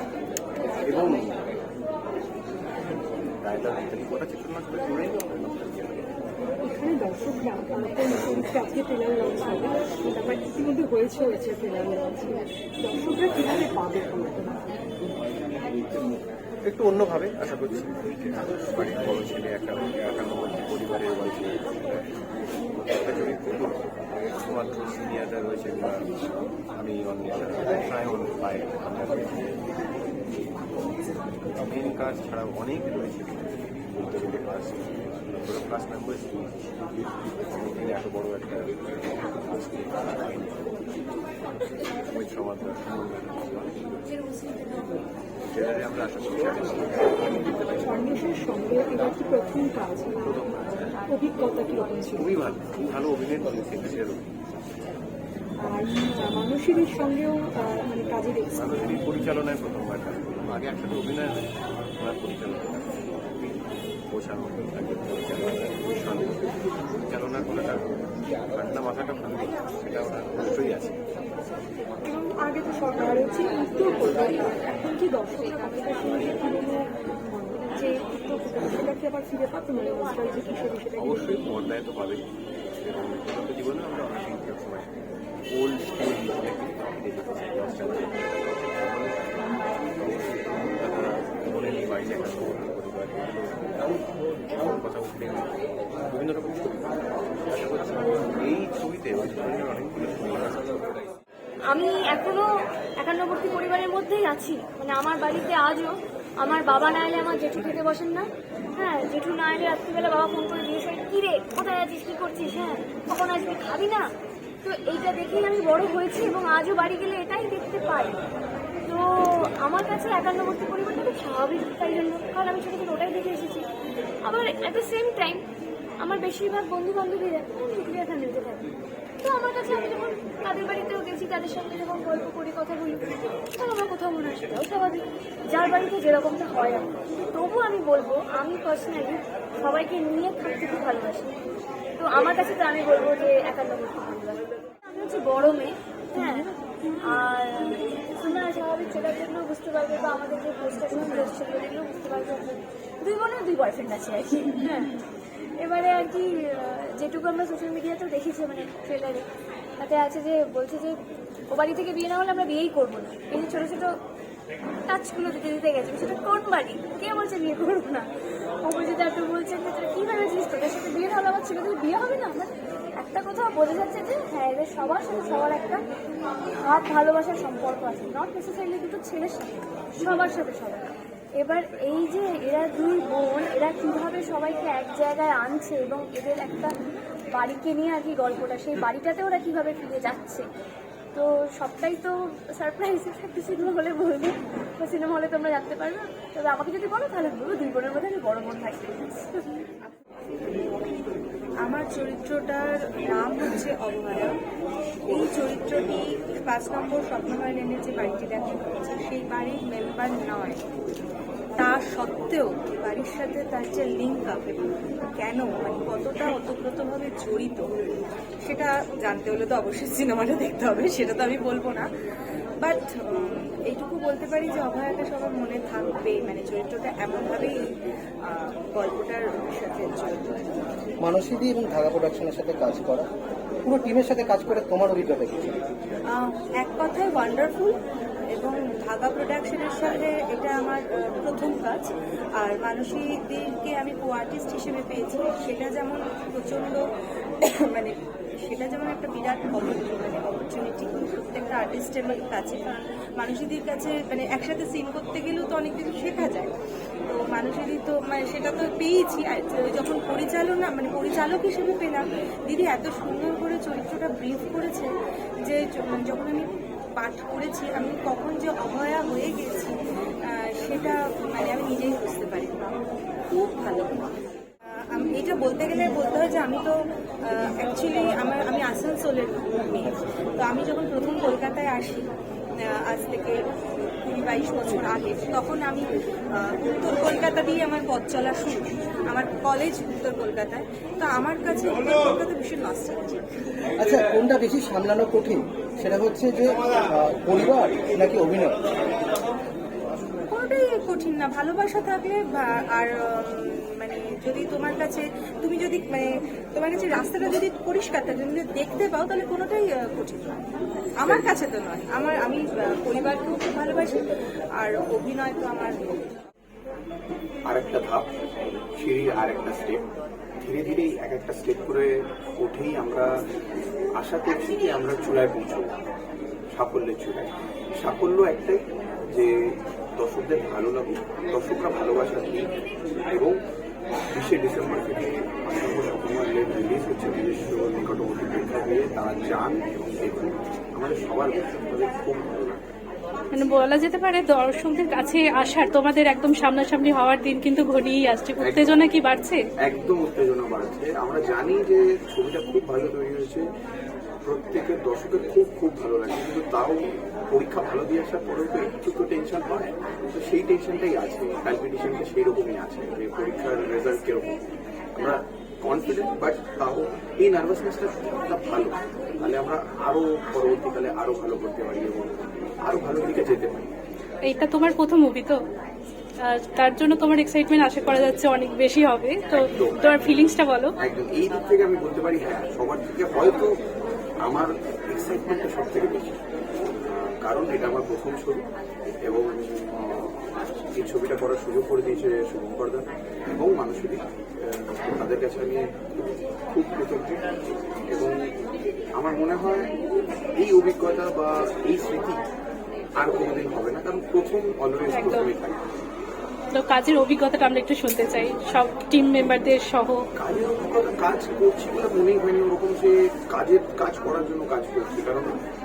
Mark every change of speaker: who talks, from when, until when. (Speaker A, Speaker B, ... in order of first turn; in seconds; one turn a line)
Speaker A: 0.9-1.4
Speaker A: 3.4-6.1
Speaker B: 6.6-14.6
Speaker A: 16.6-22.1
Speaker A: 22.9-26.1
Speaker A: 26.7-29.3
Speaker A: 31.6-40.7
Speaker A: 42.0-44.1
Speaker A: 45.5-47.4
Speaker B: 47.8-50.3
Speaker A: 50.2-51.0
Speaker B: 51.0-52.3
Speaker A: 52.2-54.3
Speaker B: 55.6-58.9
Speaker A: 58.5-63.1
Speaker A: 64.1-66.5
Speaker A: 67.0-67.8
Speaker A: 68.5-71.0
Speaker B: 72.0-81.4
Speaker A: 81.0-84.9
Speaker A: 85.5-89.5
Speaker A: 90.0-101.0
Speaker C: 101.7-102.5
Speaker C: 103.0-114.0
Speaker C: 114.6-118.2
Speaker C: 118.8-123.7
Speaker C: 124.2-125.5
Speaker C: 126.0-128.7
Speaker C: 129.2-141.3
Speaker C: 142.0-155.1
Speaker C: 155.6-159.3
Speaker C: 159.8-161.0
Speaker C: 161.5-163.9
Speaker C: 164.9-168.1
Speaker C: 168.6-175.8
Speaker C: 176.6-186.7
Speaker C: 187.3-190.4
Speaker C: 191.1-199.4
Speaker D: 201.7-204.3
Speaker D: 205.1-210.6
Speaker D: 211.6-214.6
Speaker D: 215.2-217.7
Speaker D: 218.4-221.9
Speaker D: 222.6-227.6
Speaker D: 228.2-230.6
Speaker E: 231.0-233.1
Speaker E: 233.7-235.7
Speaker D: 236.1-237.8
Speaker D: 238.4-246.8
Speaker D: 247.4-256.5
Speaker D: 257.1-264.9
Speaker D: 265.4-269.8
Speaker D: 270.3-272.8
Speaker D: 273.3-274.1
Speaker D: 274.9-276.7
Speaker D: 277.3-282.1
Speaker D: 282.6-283.4
Speaker D: 284.1-293.2
Speaker E: 293.8-298.6
Speaker D: 300.3-310.4
Speaker D: 311.0-314.0
Speaker D: 314.6-315.9
Speaker F: 317.5-319.9
Speaker F: 320.4-323.1
Speaker F: 324.0-325.7
Speaker F: 326.5-329.4
Speaker F: 330.0-332.6
Speaker F: 333.1-333.4
Speaker F: 334.1-342.6
Speaker G: 343.3-349.4
Speaker F: 348.4-348.9
Speaker F: 349.6-353.5
Speaker F: 354.2-364.4
Speaker F: 365.0-373.7
Speaker G: 374.2-375.4
Speaker G: 376.2-380.7
Speaker F: 379.3-383.5
Speaker F: 384.2-386.2
Speaker F: 386.9-388.4
Speaker F: 389.1-398.3
Speaker F: 398.9-399.7
Speaker F: 400.4-402.3
Speaker F: 403.0-405.6
Speaker G: 404.9-405.3
Speaker G: 406.5-410.0
Speaker F: 410.2-415.3